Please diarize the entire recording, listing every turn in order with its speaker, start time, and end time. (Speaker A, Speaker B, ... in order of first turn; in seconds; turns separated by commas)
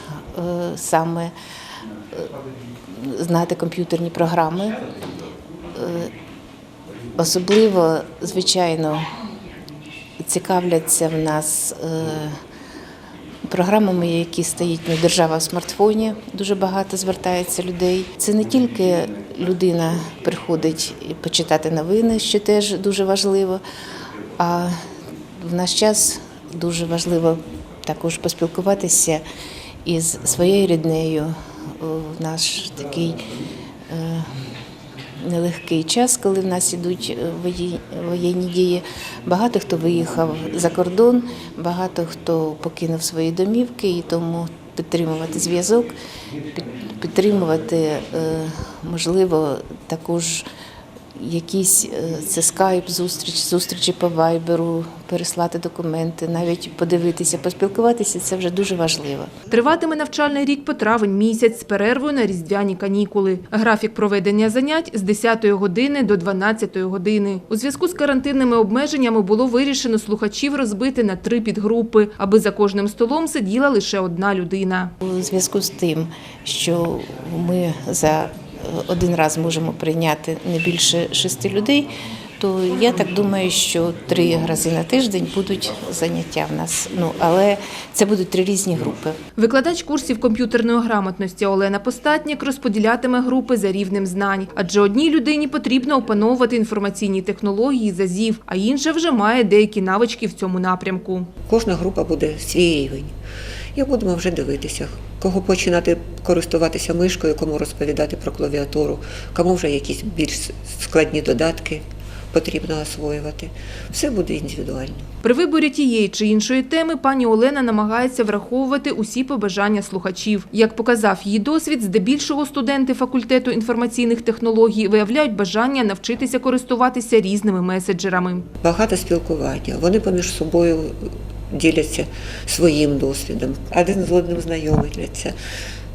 Speaker A: 0.3-1.3, Speaker A: 2.9-4.8, Speaker A: 5.7-6.1, Speaker A: 7.2-9.1, Speaker A: 10.2-12.4, Speaker A: 13.4-23.6, Speaker A: 24.4-24.7, Speaker A: 25.3-29.2, Speaker A: 29.8-33.2, Speaker A: 33.9-34.3, Speaker A: 35.2-45.9, Speaker A: 46.5-50.4, Speaker A: 51.1-59.3, Speaker B: 59.5-74.9, Speaker A: 75.0-89.2, Speaker B: 89.4-101.3, Speaker C: 101.5-103.1, Speaker C: 103.7-115.1, Speaker B: 115.2-128.4, Speaker C: 128.6-135.3